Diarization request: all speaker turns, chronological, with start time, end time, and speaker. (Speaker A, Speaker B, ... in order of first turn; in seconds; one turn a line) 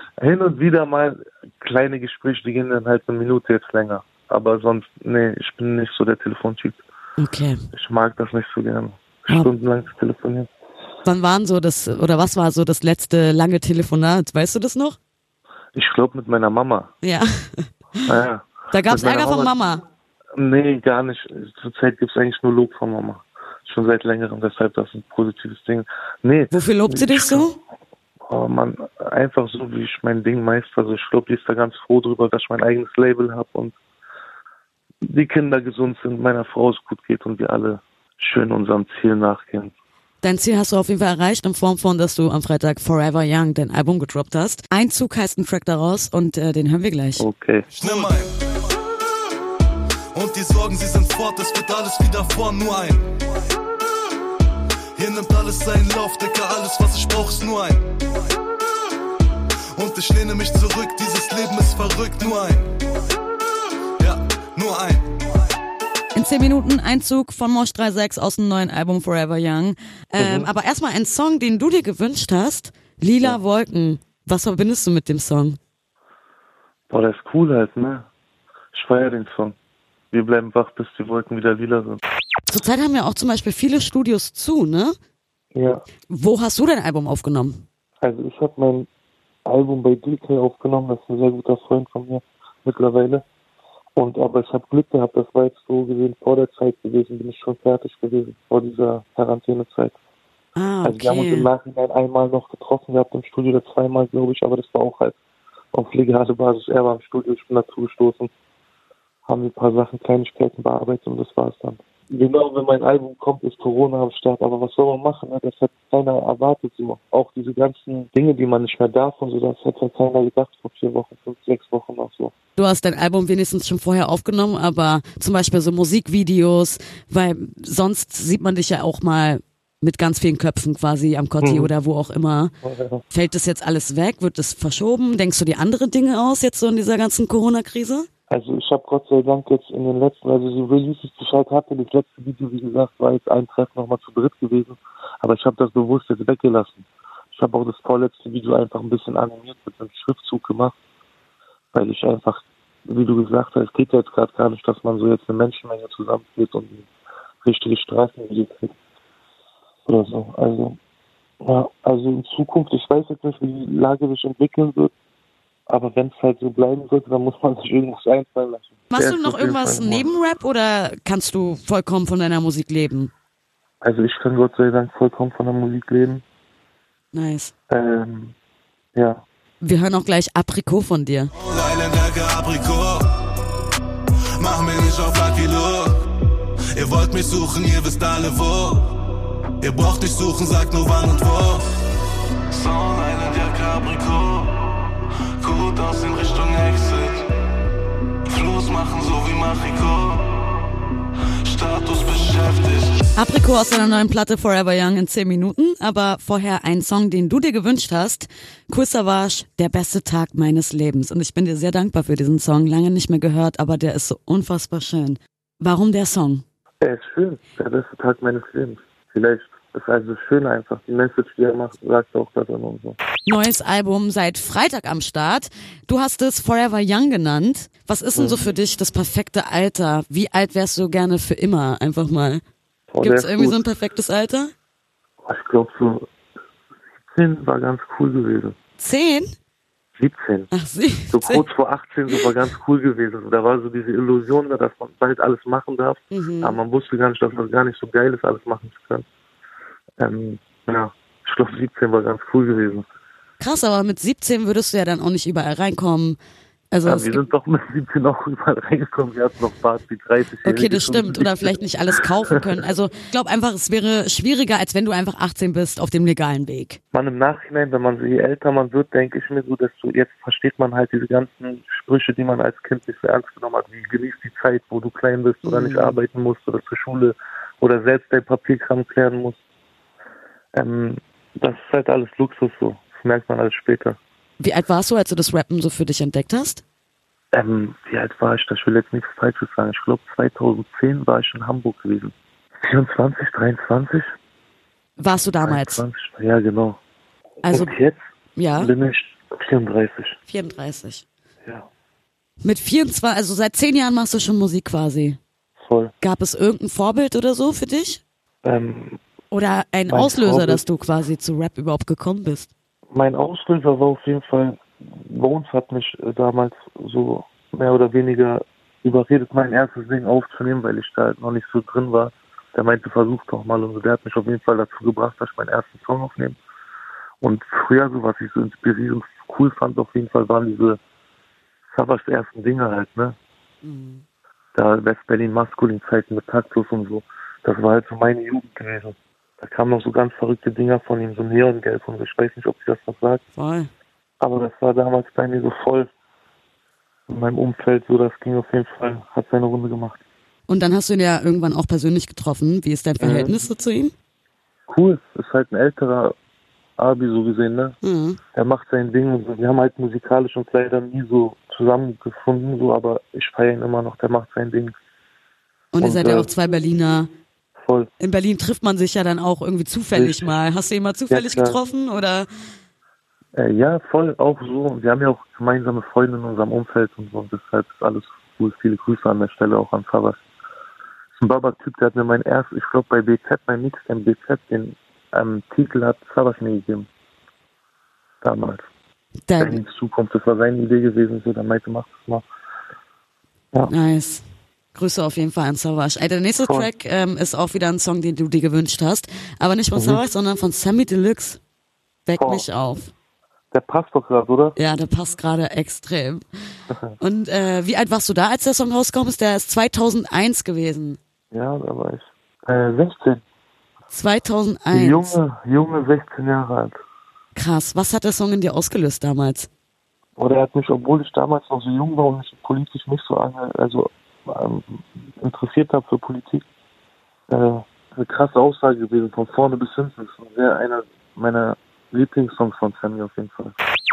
Speaker A: 0.2-6.8
Speaker B: 7.2-7.6
Speaker A: 7.7-10.5
Speaker B: 11.0-15.0
Speaker A: 15.7-16.9
Speaker B: 17.0-18.1
Speaker A: 18.1-19.5
Speaker B: 18.7-19.8
Speaker A: 20.4-27.5
Speaker B: 26.5-27.6
Speaker A: 28.3-33.7
Speaker A: 35.0-39.7
Speaker B: 40.2-47.3
Speaker A: 47.2-47.7
Speaker C: 47.8-48.3
Speaker C: 50.1-53.1
Speaker C: 55.0-57.9
Speaker C: 59.7-62.7
Speaker C: 64.0-65.2
Speaker B: 66.1-75.6
Speaker A: 70.2-70.5
Speaker A: 76.9-78.1
Speaker A: 78.7-79.6
Speaker A: 80.1-82.0
Speaker B: 82.5-85.0
Speaker A: 85.5-85.8
Speaker B: 86.1-87.6
Speaker A: 88.0-88.9
Speaker A: 89.5-93.2
Speaker A: 94.0-100.0
Speaker B: 100.5-101.5
Speaker A: 100.8-105.2
Speaker A: 105.7-108.3
Speaker A: 109.2-122.3
Speaker B: 122.5-132.5
Speaker A: 131.4-131.7
Speaker A: 132.6-133.0
Speaker B: 133.1-138.1
Speaker A: 138.3-150.7
Speaker A: 151.7-156.9
Speaker A: 157.4-158.7
Speaker A: 159.9-160.8
Speaker A: 161.4-164.9
Speaker A: 165.7-170.1
Speaker B: 168.9-173.1
Speaker A: 173.8-176.2
Speaker B: 177.1-177.5
Speaker A: 177.7-178.3
Speaker A: 178.9-179.2
Speaker B: 179.6-181.3
Speaker C: 181.3-183.1
Speaker C: 184.4-186.0
Speaker C: 186.7-188.9
Speaker C: 189.6-191.7
Speaker C: 192.5-194.6
Speaker C: 195.4-197.2
Speaker C: 198.3-200.3
Speaker C: 201.4-202.9
Speaker B: 203.1-216.4
Speaker A: 216.8-223.0
Speaker B: 223.2-232.4
Speaker A: 228.1-228.4
Speaker A: 232.9-233.6
Speaker B: 233.0-234.5
Speaker A: 235.2-236.1
Speaker A: 237.1-238.5
Speaker B: 238.8-239.3
Speaker A: 240.0-240.5
Speaker B: 240.5-241.5
Speaker A: 241.1-249.0
Speaker B: 246.1-246.6
Speaker A: 250.0-252.8
Speaker B: 253.4-256.2
Speaker B: 256.7-257.2
Speaker A: 256.8-261.6
Speaker B: 260.4-266.8
Speaker A: 266.9-279.4
Speaker B: 275.4-276.0
Speaker A: 280.6-284.0
Speaker B: 284.4-286.6
Speaker A: 287.3-294.1
Speaker B: 295.0-295.8
Speaker A: 295.4-296.8
Speaker B: 297.4-297.8
Speaker A: 297.5-298.0
Speaker B: 298.4-298.7
Speaker A: 298.6-300.2
Speaker B: 300.3-301.0
Speaker B: 302.4-305.2
Speaker A: 305.6-305.9
Speaker B: 306.0-308.0
Speaker A: 308.4-309.0
Speaker B: 309.3-312.5
Speaker A: 309.9-310.6
Speaker A: 312.9-326.4
Speaker A: 327.2-330.8
Speaker A: 331.7-333.1
Speaker B: 333.6-334.0
Speaker A: 334.5-343.2
Speaker B: 343.3-343.7
Speaker A: 344.2-345.9
Speaker A: 347.1-350.0
Speaker B: 350.5-353.9
Speaker A: 353.0-353.4
Speaker A: 354.7-356.1
Speaker A: 356.8-357.8
Speaker B: 357.8-358.2
Speaker A: 358.3-364.7
Speaker B: 365.7-367.1
Speaker A: 365.8-366.3
Speaker A: 367.6-367.9
Speaker B: 368.0-372.3
Speaker A: 369.9-370.4
Speaker A: 371.1-371.6
Speaker A: 373.4-380.2
Speaker A: 381.2-386.9
Speaker A: 388.2-388.6
Speaker B: 389.3-389.6
Speaker A: 389.4-392.2
Speaker B: 393.7-394.2
Speaker B: 394.7-401.4
Speaker A: 396.4-396.7
Speaker A: 399.8-400.0
Speaker B: 402.1-402.9
Speaker A: 402.2-402.4
Speaker A: 403.5-404.6
Speaker B: 404.6-406.2
Speaker B: 407.0-411.0
Speaker A: 411.3-413.2
Speaker B: 413.9-415.2
Speaker A: 414.7-416.8
Speaker B: 417.3-419.5
Speaker A: 420.2-426.4
Speaker A: 427.3-433.5